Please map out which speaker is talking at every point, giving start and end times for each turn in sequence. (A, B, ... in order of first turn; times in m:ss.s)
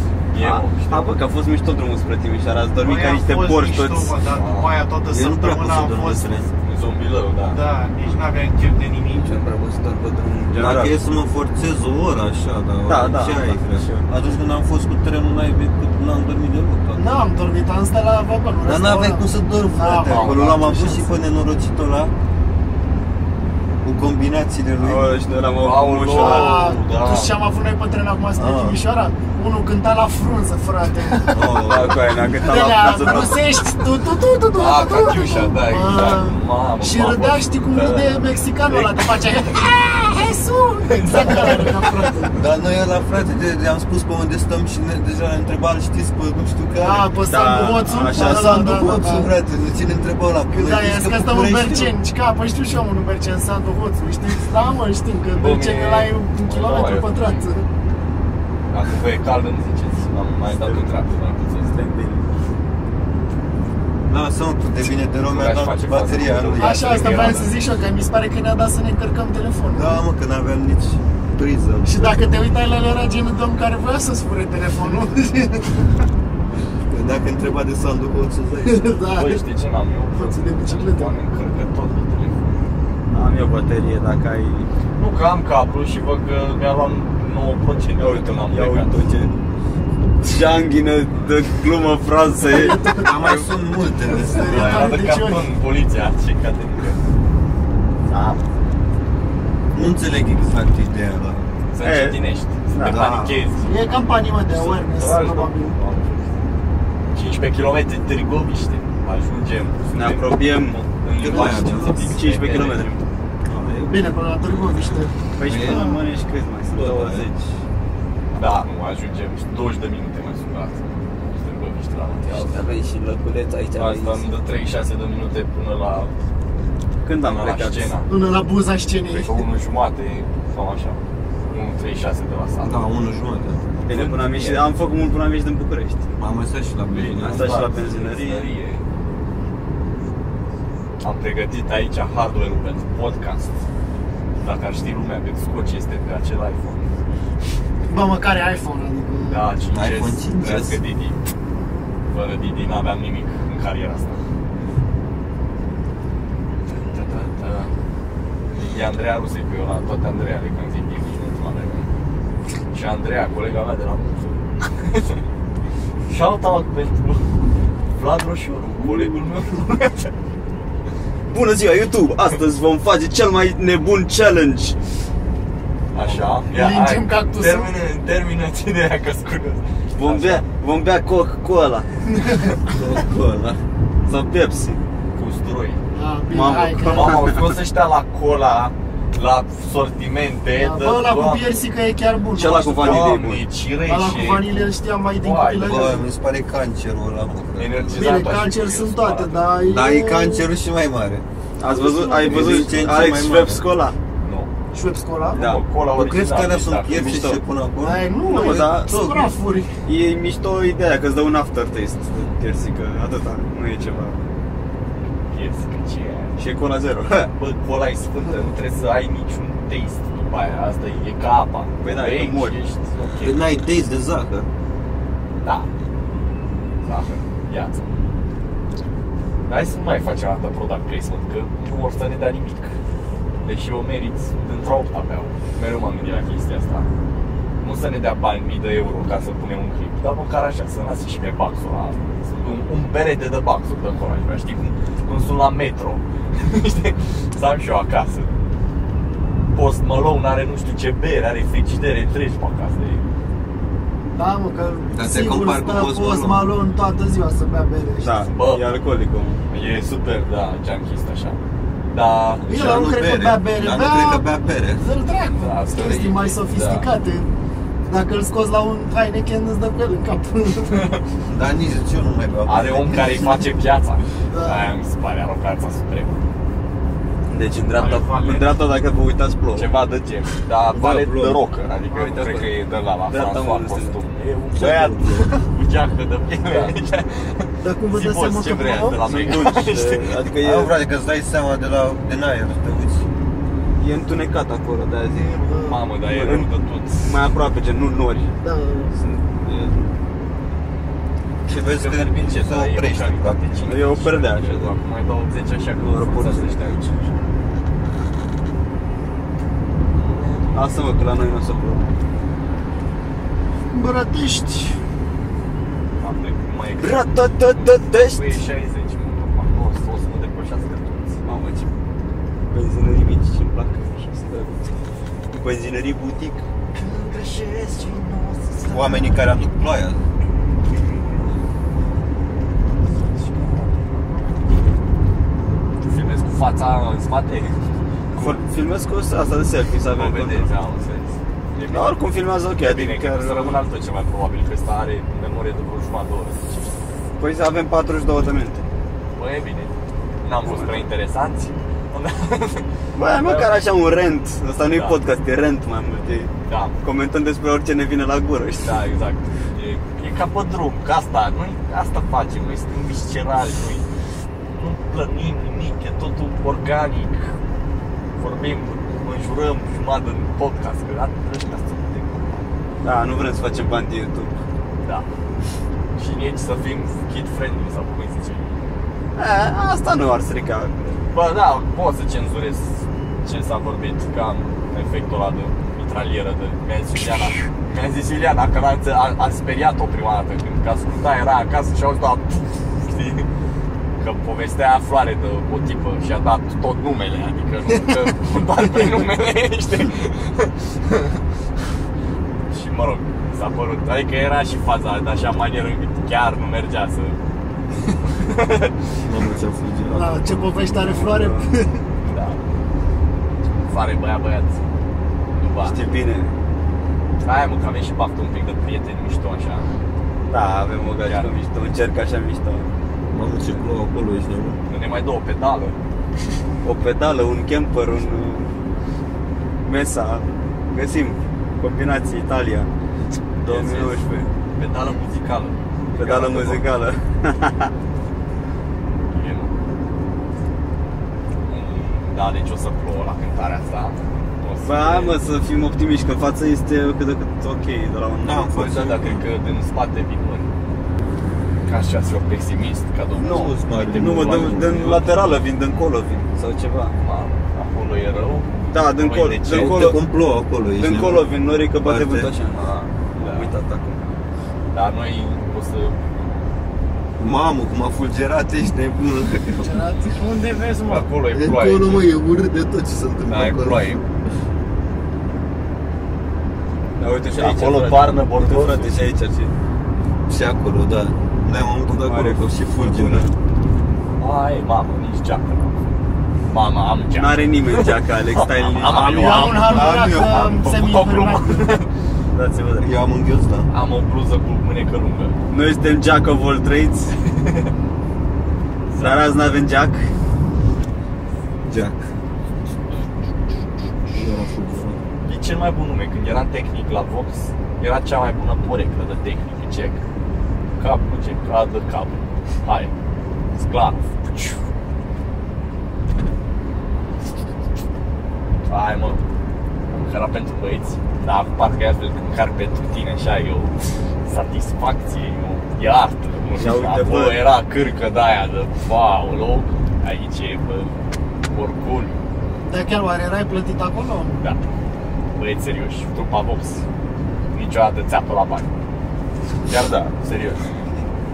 0:00.3-0:01.2 A
0:00.4-0:04.2 B
0:02.8-0:06.3 C
0:04.3-0:04.7 A
0:05.1-0:06.5 D
0:06.6-0:07.6 A
0:07.5-0:09.4 C
0:09.2-0:11.0 B
0:10.6-0:17.3 D
0:12.9-0:14.1 B
0:17.0-0:21.1 E
0:18.6-0:22.1 D
0:20.1-0:20.6 A
0:23.8-0:25.1 D
0:24.8-0:26.7 B
0:25.6-0:27.4 A
0:26.2-0:31.6 E
0:28.4-0:28.8 D
0:31.3-0:32.2 D
0:31.6-0:33.4 B
0:32.4-0:42.4 E
0:34.6-0:39.3 A
0:40.9-0:42.1 A
0:42.4-0:47.2 D
0:46.8-0:49.3 E
0:47.3-0:48.8 B
0:47.9-0:52.0 D
0:50.5-0:57.7 E
0:55.3-0:57.5 A
0:58.7-1:01.8 A
1:00.6-1:01.0 B
1:01.7-1:02.3 B
1:04.1-1:07.3 D
1:05.2-1:07.6 A
1:06.6-1:10.0 E
1:09.7-1:12.4 D
1:11.8-1:15.9 E
1:16.9-1:19.0 D
1:18.6-1:19.4 E
1:19.1-1:22.6 A
1:20.1-1:21.1 E
1:23.1-1:24.7 B
1:25.0-1:28.9 A
1:28.0-1:29.4 B
1:30.2-1:33.4 B
1:32.5-1:33.3 E
1:32.9-1:35.0 D
1:34.1-1:35.5 E
1:34.4-1:37.0 A
1:38.1-1:38.4 A
1:39.7-1:41.4 D
1:41.7-1:46.4 A
1:41.8-1:43.1 B
1:42.8-1:43.4 D
1:43.6-1:45.8 E
1:47.1-1:52.9 A
1:49.9-1:53.8 B
1:51.2-1:52.1 D
1:51.3-1:52.1 E
1:53.6-1:54.0 D
1:53.9-1:56.0 E
1:55.4-1:57.4 B
1:55.4-1:55.9 D
1:56.7-1:57.3 D
1:58.4-2:02.6 A
2:02.3-2:04.3 B
2:03.8-2:06.1 A
2:07.0-2:08.0 B
2:07.2-2:08.1 A
2:08.1-2:09.4 E
2:09.1-2:12.9 A
2:12.6-2:13.6 D
2:13.9-2:14.7 A
2:13.9-2:16.1 B
2:16.2-2:17.6 D
2:16.9-2:18.8 A
2:17.2-2:18.5 B
2:21.0-2:23.6 A
2:24.4-2:27.0 A
2:27.9-2:29.4 E
2:29.3-2:31.2 A
2:29.7-2:30.8 D
2:32.1-2:34.2 A
2:36.6-2:37.7 A
2:38.6-2:41.9 A
2:42.7-2:45.2 A
2:46.1-2:47.3 A
2:47.9-2:50.1 A
2:51.3-2:54.8 B
2:55.9-3:00.4 A
2:56.0-2:56.4 B
2:56.5-2:57.7 E
3:00.0-3:01.9 B
3:02.1-3:02.6 E
3:02.7-3:03.6 D
3:04.1-3:04.8 B
3:05.2-3:05.8 A
3:05.9-3:07.2 E
3:06.3-3:07.5 B
3:06.8-3:11.7 A
3:10.5-3:13.0 E
3:12.4-3:13.4 B
3:12.7-3:16.0 A
3:13.9-3:16.1 E
3:15.6-3:18.4 D
3:17.6-3:19.5 A
3:18.0-3:20.5 E
3:19.6-3:21.2 D
3:21.6-3:24.0 B
3:21.7-3:23.2 E
3:22.2-3:23.6 D
3:24.2-3:24.5 A
3:24.7-3:25.5 E
3:25.3-3:27.3 A
3:25.3-3:25.6 B
3:25.9-3:29.4 D
3:26.9-3:27.4 B
3:27.8-3:29.7 E
3:28.3-3:28.9 B
3:29.8-3:34.2 B
3:35.3-3:36.4 A
3:36.4-3:37.3 B
3:37.3-3:43.6 A
3:41.8-3:42.6 B
3:43.2-3:44.5 D
3:45.4-3:45.7 A
3:46.8-3:47.9 A
3:49.5-3:52.8 A
3:53.4-3:56.9 A
3:57.6-4:08.3 A
4:09.5-4:13.0 A
4:14.1-4:18.2 E
4:14.9-4:16.5 D
4:18.0-4:19.4 B
4:18.2-4:18.7 A
4:19.5-4:21.4 A
4:21.9-4:22.9 A
4:22.5-4:24.3 E
4:22.5-4:24.8 D
4:24.8-4:27.3 E
4:25.4-4:26.9 A
4:27.9-4:30.9 E
4:30.7-4:31.0 A
4:31.3-4:33.4 D
4:32.5-4:36.2 A
4:34.3-4:34.7 E
4:37.3-4:39.7 B
4:37.8-4:38.5 C
4:39.6-4:50.2 A
4:40.7-4:41.4 D
4:41.9-4:42.5 B
4:43.1-4:44.0 B
4:44.6-4:45.4 D
4:44.6-4:44.9 B
4:46.4-4:46.7 B
4:47.6-4:49.1 E
4:49.0-4:50.7 B
4:50.4-4:53.1 D
4:53.8-4:58.4 B
4:55.1-4:57.3 A
4:55.5-4:55.8 E
4:58.4-4:58.9 E
4:58.9-4:59.9 B
5:01.5-5:03.7 D
5:01.5-5:07.1 A
5:03.6-5:04.7 B
5:05.8-5:06.8 B
5:10.0-5:10.7 A
5:10.5-5:11.9 B
5:13.7-5:14.8 E
5:16.0-5:21.2 A
5:16.8-5:18.4 B
5:21.2-5:21.7 B
5:22.5-5:24.7 B
5:25.3-5:26.4 B
5:26.7-5:29.2 A
5:28.7-5:30.0 D
5:32.9-5:34.1 A
5:35.8-5:37.6 A
5:38.1-5:38.5 A
5:38.2-5:40.5 B
5:39.9-5:42.0 A
5:41.6-5:43.6 B
5:42.6-5:46.7 A
5:47.2-5:48.6 B
5:49.2-5:53.6 A
5:50.4-5:50.9 B
5:53.0-5:58.8 B
5:54.7-5:55.0 A
5:56.5-5:56.8 A
5:58.6-6:03.9 A
6:04.5-6:07.4 A
6:08.2-6:12.5 A
6:12.8-6:14.3 B
6:14.8-6:15.1 A
6:16.0-6:18.5 A
6:19.2-6:21.0 B
6:21.1-6:33.3 A
6:34.0-6:40.6 A
6:42.5-6:47.2 A
6:48.1-6:48.8 A
6:49.0-6:50.5 D
6:49.9-6:51.8 E
6:50.7-6:51.5 B
6:52.0-6:52.4 A
6:53.6-6:54.6 A
6:55.4-6:55.8 A
6:55.6-6:56.3 B
6:57.2-6:59.7 A
7:00.3-7:02.7 B
7:01.0-7:01.3 A
7:03.1-7:04.6 D
7:04.7-7:05.8 A
7:06.6-7:08.5 B
7:09.6-7:12.7 B
7:13.4-7:14.3 B
7:13.4-7:14.0 A
7:14.5-7:16.7 A
7:16.0-7:17.7 B
7:19.1-7:19.6 A
7:21.5-7:25.2 A
7:24.6-7:28.7 B
7:28.2-7:29.2 D
7:28.4-7:30.5 A
7:31.6-7:35.3 A
7:33.2-7:35.0 D
7:33.2-7:36.9 B
7:37.0-7:40.0 A
7:38.7-7:40.0 B
7:39.5-7:41.3 D
7:40.8-7:44.0 B
7:41.8-7:42.3 D
7:42.5-7:43.6 A
7:44.7-7:46.5 A
7:47.2-7:49.8 D
7:49.6-7:51.1 E
7:50.8-7:52.1 A
7:51.3-7:54.1 D
7:53.3-7:54.0 A
7:57.0-7:59.5 B
7:57.4-7:59.1 A
8:00.3-8:03.3 D
8:01.9-8:03.3 B
8:04.2-8:05.8 A
8:06.5-8:11.9 A
8:07.2-8:10.1 B
8:09.1-8:11.8 E
8:09.7-8:10.4 D
8:12.3-8:12.9 B
8:12.8-8:13.7 D
8:13.7-8:15.4 A
8:15.5-8:17.2 B
8:17.2-8:17.7 A
8:18.9-8:19.5 A
8:19.0-8:20.1 B
8:21.7-8:22.0 D
8:24.1-8:25.0 D
8:25.2-8:30.0 A
8:30.8-8:32.9 A
8:33.5-8:34.6 A
8:38.7-8:39.2 A
8:39.9-8:43.7 A
8:44.2-8:50.9 A
8:46.6-8:47.4 B
8:51.5-8:52.2 A
8:52.6-8:54.4 E
8:55.3-8:56.8 A
8:57.5-8:58.7 A
8:59.7-9:00.7 A